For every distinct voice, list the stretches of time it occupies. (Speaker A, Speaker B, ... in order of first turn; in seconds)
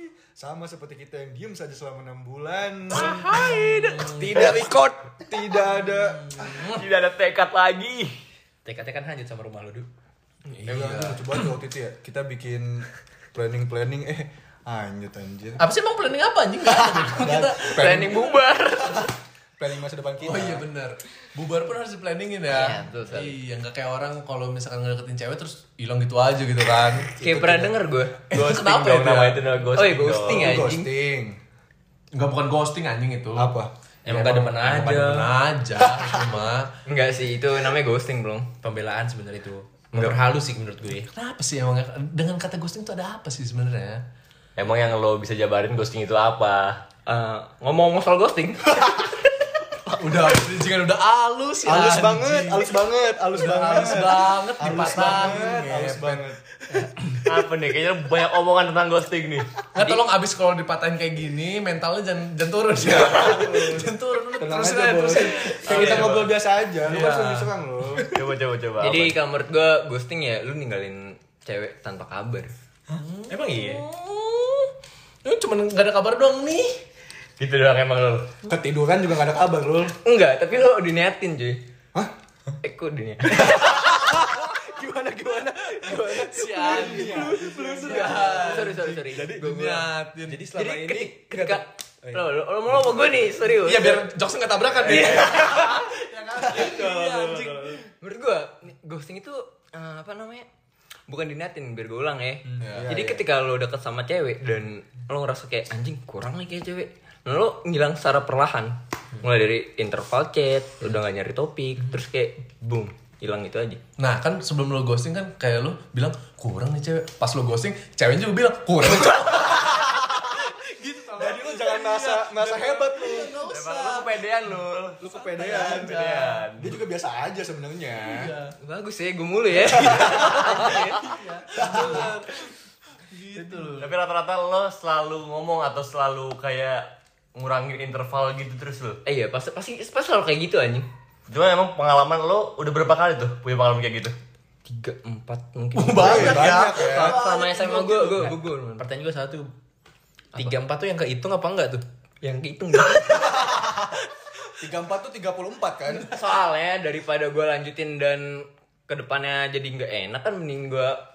Speaker A: 0.4-3.3, 4.4-4.7, 5.2-6.7, 10.7-15.6, 16.9-20.7, 27.2-27.7, 30.2-31.4, 33.3-33.7, 51.6-56.4, 62.8-68.1, 78.5-80.0, 86.6-89.5, 90.6-92.9, 96.1-96.9, 102.6-103.2, 121.2-123.4, 125.0-126.0, 126.6-128.3, 129.6-130.7, 131.6-132.1, 146.0-147.2, 153.3-154.0, 154.6-156.1
Speaker B: 2.9-4.6, 5.8-6.9, 10.5-11.6, 15.6-17.8, 20.2-27.5, 28.3-29.6, 32.1-33.6, 34.1-36.7, 41.1-44.0, 50.0-52.8, 53.3-57.2, 59.7-66.3, 66.8-68.2, 72.9-74.7, 75.2-76.8, 83.9-84.5, 85.5-90.6, 93.5-97.8, 102.6-103.0, 114.0-124.3, 125.0-126.5, 128.0-128.6, 129.9-133.9, 145.7-148.3
Speaker C: 3.0-4.9, 17.7-19.1, 22.5-23.4, 27.1-28.2, 29.8-30.9, 36.9-38.5, 47.1-49.3, 59.8-60.0, 65.2-66.0, 68.8-72.5, 80.0-81.6, 82.6-89.8, 90.4-94.1, 94.8-95.9, 96.5-100.5, 101.1-113.8, 119.1-120.0, 124.3-124.9, 128.6-131.2, 139.1-140.9, 144.7-148.9, 152.2-153.8, 156.0-161.0
Speaker D: 4.3-4.9, 8.7-9.9, 34.0-35.3, 38.6-41.1, 73.3-73.8, 85.5-88.0, 90.5-91.4, 147.6-149.5, 150.3-151.8
Speaker E: 6.6-8.2, 28.3-30.6, 44.6-46.8, 57.2-59.6, 65.7-66.3, 68.0-69.2, 77.4-78.3, 123.5-126.8, 133.8-139.0, 141.3-144.2